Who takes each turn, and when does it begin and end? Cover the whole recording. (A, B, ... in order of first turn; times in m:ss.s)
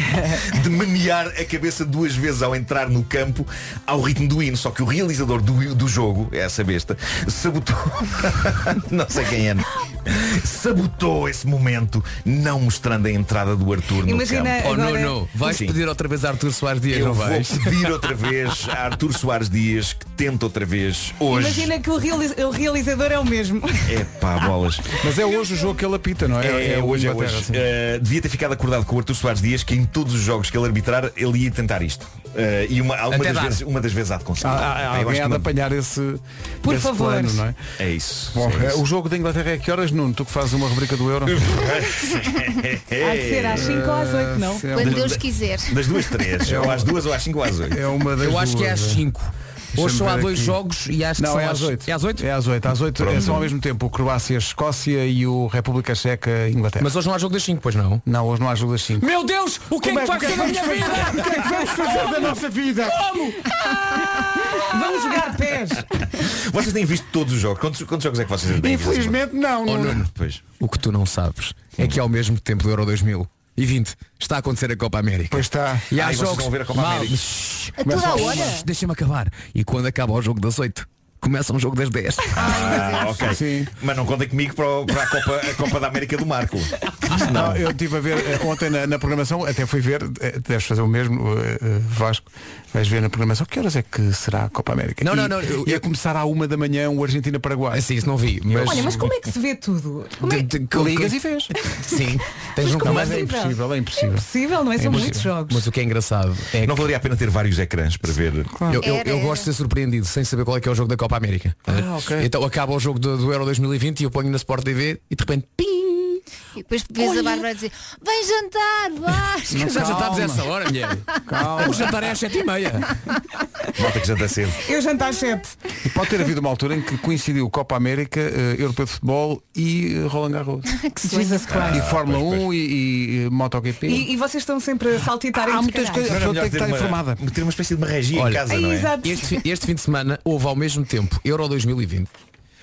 0:00.3-0:14.6 A
0:14.0-0:15.2 B
0:14.6-0:18.1 C
0:15.4-0:15.8 A
0:16.9-0:21.7 A
0:21.3-0:23.9 B
0:23.9-0:24.9 A
0:25.0-0:27.7 D
0:26.4-0:35.5 A
0:33.1-0:33.6 C
0:34.4-0:37.6 D
0:36.6-0:37.4 B
0:37.8-0:38.8 A
0:38.3-0:41.6 D
0:41.3-0:43.8 A
0:43.0-0:44.8 B
0:43.6-0:45.2 D
0:44.7-0:46.1 E
0:44.8-0:47.8 A
0:46.4-0:47.1 D
0:47.6-0:49.0 D
0:48.2-0:52.3 C
0:49.8-0:50.6 D
0:51.2-0:56.9 D
0:53.0-0:53.4 A
0:56.8-0:58.0 C
0:58.0-0:59.1 D
0:59.0-1:04.3 C
0:59.8-1:03.4 D
1:04.0-1:04.6 D
1:04.6-1:05.8 B
1:06.1-1:10.4 A
1:08.5-1:10.1 D
1:09.7-1:22.8 C
1:15.3-1:15.9 D
1:16.0-1:17.2 A
1:17.8-1:18.6 E
1:17.8-1:18.6 D
1:22.4-1:27.6 A
1:22.4-1:23.7 D
1:27.2-1:37.9 D
1:35.0-1:35.9 C
1:37.7-1:39.0 C
1:38.5-1:39.0 D
1:38.6-1:40.5 B
1:40.2-1:41.2 C
1:40.7-1:41.5 D
1:41.9-1:43.4 C
1:42.8-1:45.6 B
1:42.8-1:45.3 D
1:44.8-1:46.9 C
1:46.6-1:48.6 A
1:48.5-1:48.9 D
1:48.7-1:56.2 C
1:48.8-1:49.5 E
1:51.7-1:52.3 D
1:56.6-1:59.8 E
1:59.5-2:00.5 D
1:59.5-2:02.9 C
2:01.2-2:01.9 D
2:03.8-2:04.6 A
2:04.6-2:05.6 B
2:05.8-2:10.8 D
2:10.8-2:11.5 E
2:11.0-2:11.9 B
2:11.5-2:12.4 A
2:11.7-2:14.1 D
2:13.9-2:16.2 B
2:15.3-2:17.2 D
2:16.1-2:19.0 A
2:18.1-2:18.5 C
2:18.5-2:19.3 B
2:19.0-2:22.1 C